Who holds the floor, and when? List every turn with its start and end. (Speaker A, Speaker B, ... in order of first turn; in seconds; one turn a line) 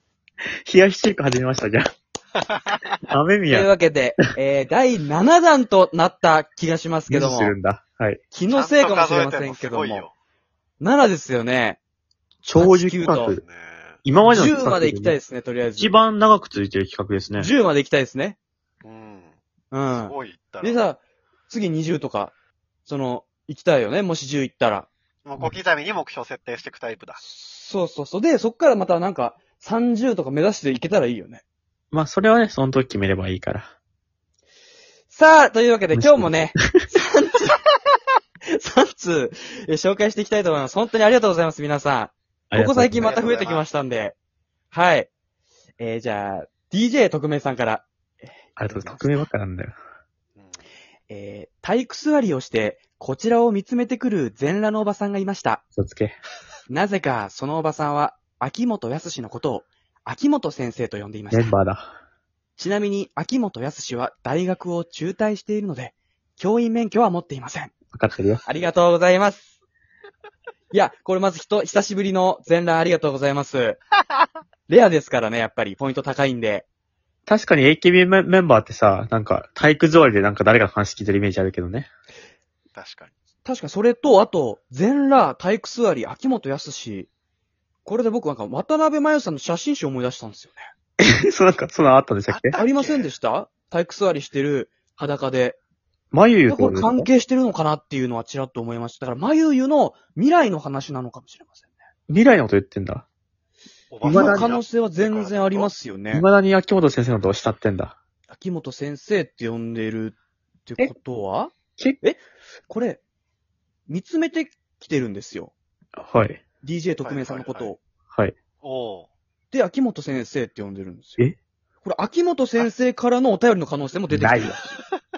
Speaker A: 0.7-1.8
Speaker A: 3.1-3.7
Speaker B: 3.5-7.6
Speaker A: 7.1-8.2
Speaker B: 8.3-10.1
Speaker C: 8.5-10.1
Speaker B: 10.8-11.8
Speaker A: 12.4-13.4
Speaker B: 12.6-13.3
Speaker C: 13.3-14.0
Speaker A: 14.1-15.2
Speaker B: 14.3-16.0
Speaker A: 15.8-17.5
Speaker B: 17.4-18.4
Speaker C: 18.8-19.3
Speaker B: 19.7-22.3
Speaker C: 19.9-20.8
Speaker B: 22.9-24.9
Speaker C: 25.2-27.2
Speaker B: 27.2-31.4
Speaker A: 31.9-33.7
Speaker B: 35.1-37.6
Speaker A: 36.0-36.4
Speaker B: 38.5-44.2
Speaker A: 42.5-43.2
Speaker C: 43.0-43.6
Speaker B: 44.7-45.1
Speaker B: 45.8-49.2
Speaker A: 48.6-49.8
Speaker B: 51.1-55.6
Speaker A: 55.8-56.2
Speaker B: 56.7-61.5
Speaker A: 61.3-61.9
Speaker B: 62.6-67.7
Speaker A: 67.9-68.4
Speaker B: 68.5-69.5
Speaker B: 70.7-73.8
Speaker B: 74.7-76.7
Speaker A: 77.3-81.9
Speaker C: 82.7-83.1
Speaker B: 83.4-87.1
Speaker B: 87.8-90.7
Speaker A: 91.0-92.6
Speaker C: 92.3-93.1
Speaker B: 92.6-95.6
Speaker A: 96.1-97.1
Speaker B: 96.5-101.7
Speaker A: 102.1-103.1
Speaker C: 103.9-105.7
Speaker A: 104.0-104.5
Speaker B: 104.0-106.3
Speaker A: 106.1-108.0
Speaker B: 108.3-113.0
Speaker B: 113.9-115.5
Speaker A: 116.0-116.4
Speaker B: 116.6-117.8
Speaker C: 117.0-117.7
Speaker C: 118.6-119.1
Speaker B: 119.5-121.2
Speaker B: 121.8-124.7
Speaker A: 124.1-124.5